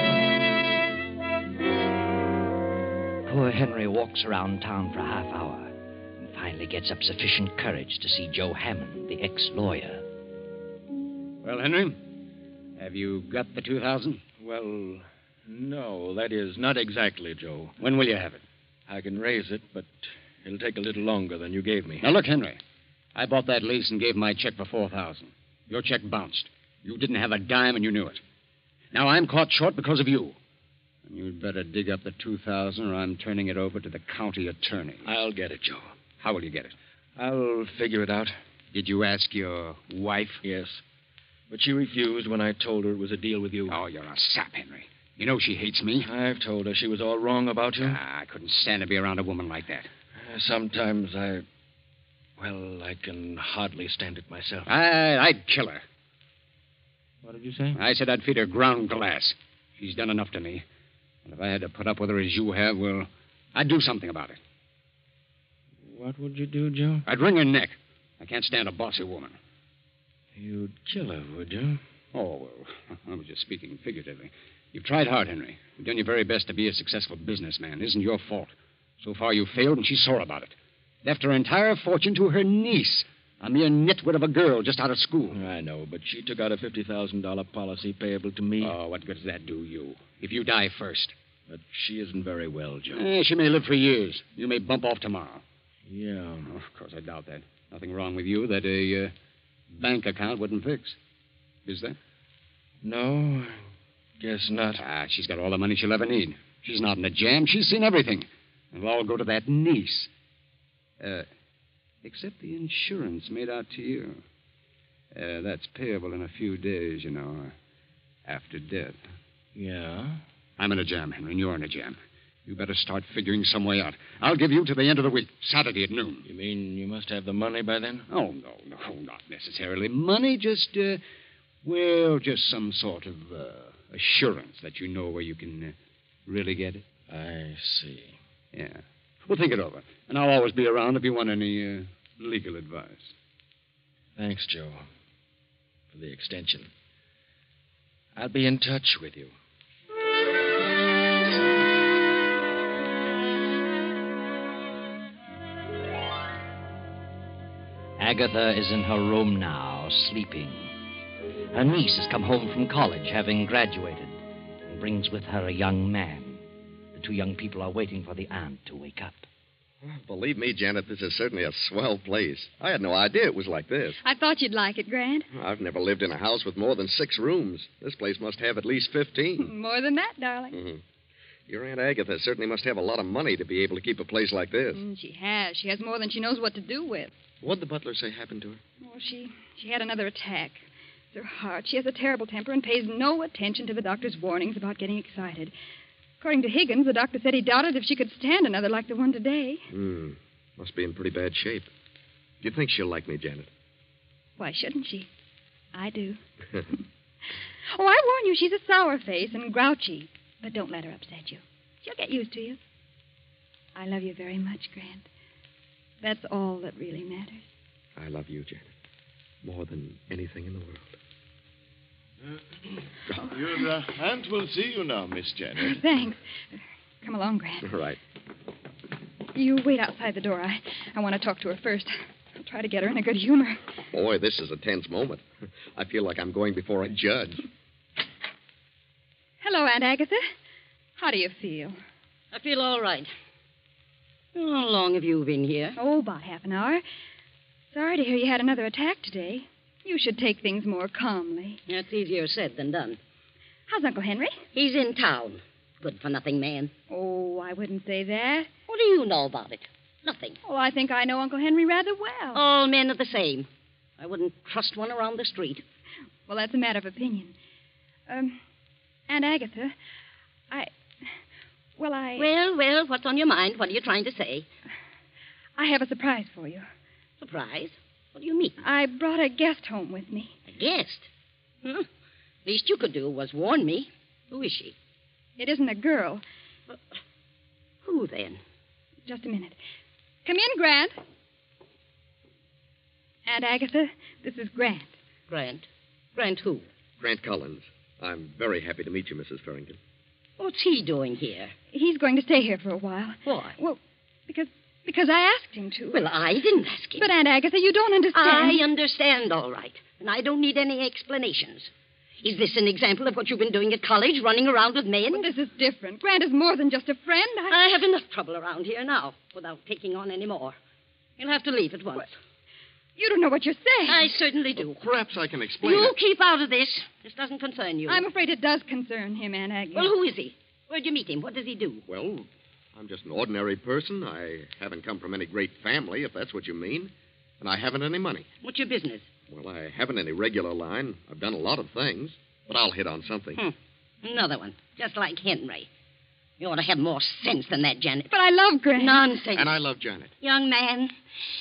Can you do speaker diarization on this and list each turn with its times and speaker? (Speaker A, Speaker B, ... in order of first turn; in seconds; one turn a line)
Speaker A: 3.3-10.0
Speaker B: 11.4-12.2
Speaker B: 12.8-14.2
Speaker C: 14.4-17.8
Speaker B: 17.8-18.4
Speaker C: 18.9-22.1
Speaker B: 22.0-22.6
Speaker B: 23.1-28.2
Speaker B: 28.9-30.4
Speaker B: 31.1-35.1
Speaker C: 35.1-35.9
Speaker B: 36.2-36.8
Speaker C: 37.2-38.4
Speaker B: 38.7-40.4
Speaker C: 40.4-40.8
Speaker C: 41.5-43.8
Speaker B: 43.7-46.1
Speaker C: 46.0-48.0
Speaker B: 47.8-49.9
Speaker C: 50.2-51.5
Speaker C: 52.4-54.7
Speaker B: 54.7-55.8
Speaker C: 57.2-57.8
Speaker B: 57.8-60.7
Speaker B: 61.2-64.4
Speaker C: 65.8-67.0
Speaker B: 67.1-69.4
Speaker C: 70.3-71.8
Speaker B: 72.1-85.4
Speaker C: 85.3-88.8
Speaker B: 88.6-91.1
Speaker C: 91.5-93.1
Speaker B: 92.9-95.4
Speaker C: 95.9-96.5
Speaker B: 96.4-99.1
Speaker B: 99.7-101.0
Speaker B: 101.7-102.0
Speaker C: 102.8-103.6
Speaker C: 104.2-104.8
Speaker B: 104.8-110.1
Speaker B: 111.0-111.3
Speaker B: 112.0-114.2
Speaker B: 115.1-117.5
Speaker B: 118.2-119.0
Speaker C: 119.5-120.2
Speaker B: 120.6-126.2
Speaker C: 126.2-128.1
Speaker B: 128.1-131.0
Speaker B: 131.6-136.8
Speaker C: 137.1-138.2
Speaker B: 138.5-143.1
Speaker C: 144.2-144.8
Speaker C: 145.9-146.7
Speaker C: 148.1-149.3
Speaker A: 158.0-160.7
Speaker A: 161.5-169.3
Speaker D: 169.8-174.0
Speaker E: 174.0-175.3
Speaker D: 175.3-179.5
Speaker E: 179.4-180.6
Speaker D: 180.5-180.8
Speaker D: 181.5-184.8
Speaker E: 184.8-187.1
Speaker D: 187.4-188.6
Speaker E: 188.8-195.5
Speaker E: 196.2-199.7
Speaker D: 199.7-201.7
Speaker D: 202.4-203.5
Speaker E: 204.4-205.1
Speaker E: 205.7-206.2
Speaker E: 207.7-212.6
Speaker E: 213.8-215.1
Speaker E: 216.0-217.4
Speaker D: 218.0-218.7
Speaker D: 219.4-221.0
Speaker F: 223.2-225.8
Speaker E: 225.6-226.2
Speaker E: 227.0-227.7
Speaker D: 227.6-228.0
Speaker E: 229.3-233.6
Speaker D: 233.9-237.4
Speaker E: 239.4-240.3
Speaker E: 241.0-241.8
Speaker G: 242.3-243.1
Speaker G: 244.3-245.8
Speaker E: 245.8-246.8
Speaker E: 247.7-251.6
Speaker G: 251.7-253.0
Speaker E: 253.7-254.4
Speaker G: 254.5-256.7
Speaker E: 256.9-258.5
Speaker G: 258.7-260.4
Speaker E: 260.4-262.4
Speaker G: 262.3-263.5
Speaker G: 264.0-265.6
Speaker E: 266.3-267.4
Speaker E: 268.1-268.4
Speaker E: 269.1-269.8
Speaker E: 271.8-272.3
Speaker G: 272.2-274.5
Speaker E: 275.6-276.6
Speaker G: 277.2-278.6
Speaker E: 278.6-280.4
Speaker G: 280.5-281.1
Speaker G: 282.4-284.8
Speaker E: 285.4-286.2
Speaker G: 287.8-288.4
Speaker E: 289.1-289.6
Speaker E: 290.2-290.9
Speaker E: 293.2-294.9
Speaker G: 295.3-296.6
Speaker D: 297.0-299.8
Speaker G: 300.4-301.5
Speaker E: 301.7-306.1
Speaker G: 303.2-303.6
Speaker G: 305.9-307.1
Speaker E: 307.0-308.6
Speaker G: 308.1-311.7
Speaker G: 312.2-315.3
Speaker E: 315.1-317.6
Speaker G: 317.5-320.6
Speaker G: 321.2-322.1
Speaker E: 323.0-324.1
Speaker G: 323.9-324.8
Speaker D: 324.6-325.9
Speaker G: 325.6-328.0
Speaker E: 327.9-329.9
Speaker G: 329.7-331.8
Speaker D: 331.9-338.3
Speaker G: 338.4-339.1
Speaker D: 339.3-343.4
Speaker G: 343.4-345.7
Speaker G: 346.4-348.1
Speaker E: 348.1-349.1
Speaker G: 348.8-349.5
Speaker D: 349.4-350.1
Speaker G: 350.2-350.9